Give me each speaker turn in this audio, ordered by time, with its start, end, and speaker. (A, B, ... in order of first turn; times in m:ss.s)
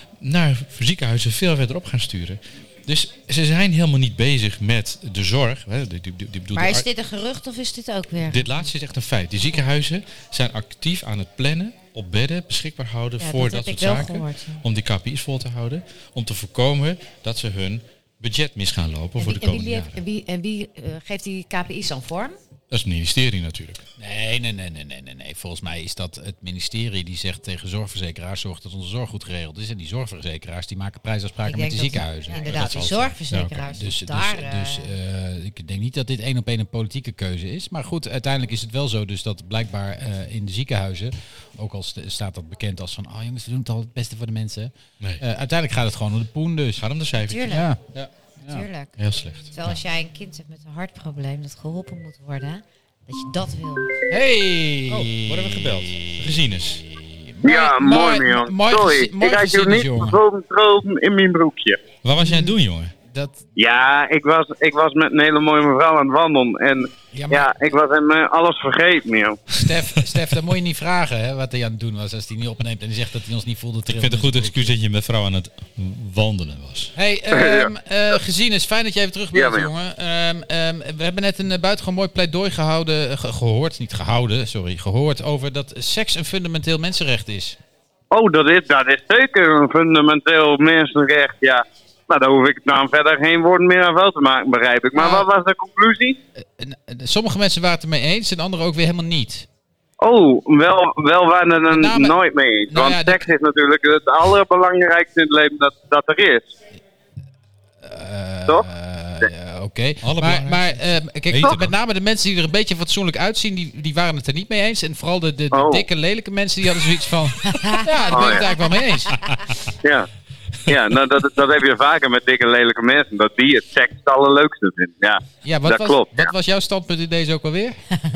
0:00.2-0:06.8 A
0:06.5-0:08.7 B
0:08.3-0:20.0 A
0:13.2-0:14.6 B
0:19.2-0:22.4 C
0:22.7-0:23.8 A
0:24.0-0:46.8 D
0:31.5-0:32.8 C
0:32.2-0:34.9 B
0:32.6-0:32.9 A
0:46.8-0:48.1 A
0:47.2-0:47.7 B
0:47.4-0:47.8 D
0:48.5-0:48.9 B
0:49.0-0:49.8 A
0:49.5-0:54.0 B
0:54.1-1:00.2 D
0:54.9-0:56.8 A
0:57.4-1:01.8 E
1:02.0-1:02.9 A
1:02.2-1:02.6 D
1:03.1-1:03.4 D
1:03.6-1:09.4 E
1:07.1-1:07.5 D
1:09.5-1:14.7 D
1:13.9-1:16.9 A
1:16.9-1:27.6 D
1:17.3-1:17.7 E
1:19.3-1:19.7 E
1:28.1-1:36.2 E
1:35.0-1:35.2 D
1:36.4-1:39.5 D
1:40.0-1:46.5 E
1:41.7-1:42.2 D
1:42.7-1:43.3 D
1:47.8-1:59.4 D
1:50.0-1:51.7 A
1:55.5-1:55.8 E
1:57.5-1:58.8 B
1:58.1-1:58.4 E
2:00.7-2:06.3 E
2:05.4-2:07.8 D